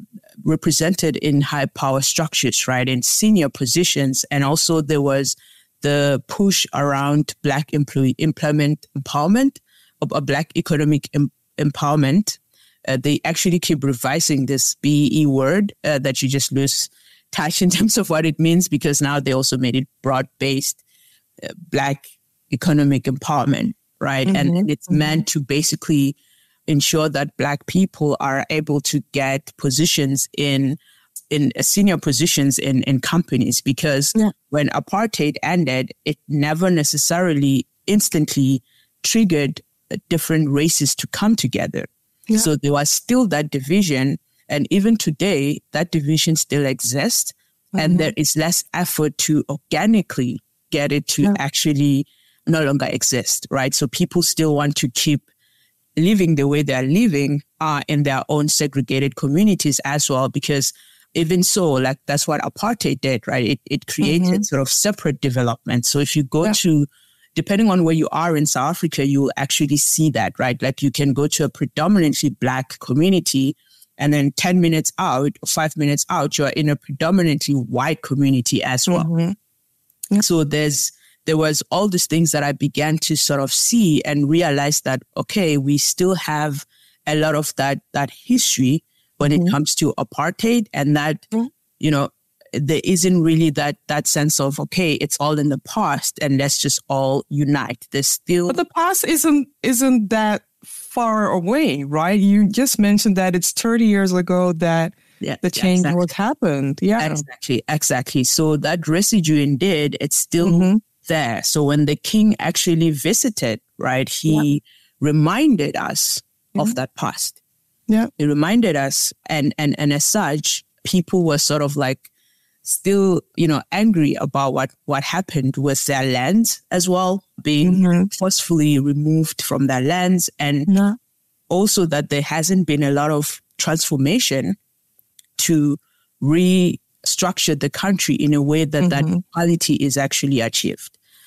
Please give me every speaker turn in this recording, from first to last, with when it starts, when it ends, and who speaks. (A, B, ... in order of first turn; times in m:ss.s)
0:00.4-0:20.8 A
0:21.4-0:26.2 A
0:24.3-0:25.1 B
0:26.7-0:30.8 A
0:31.3-0:55.2 A
0:47.8-0:48.1 B
0:56.0-1:19.1 A
1:04.0-1:04.4 B
1:18.9-1:19.4 B
1:20.2-1:31.3 A
1:29.2-1:29.6 B
1:31.8-1:38.6 A
1:38.5-1:47.2 B
1:45.2-1:46.0 A
1:47.0-1:57.4 A
1:50.4-1:50.8 B
1:58.2-2:02.1 A
2:02.6-2:10.7 A
2:07.6-2:08.1 B
2:10.7-2:11.0 B
2:11.5-2:14.6 A
2:15.4-2:20.9 A
2:18.8-2:19.2 B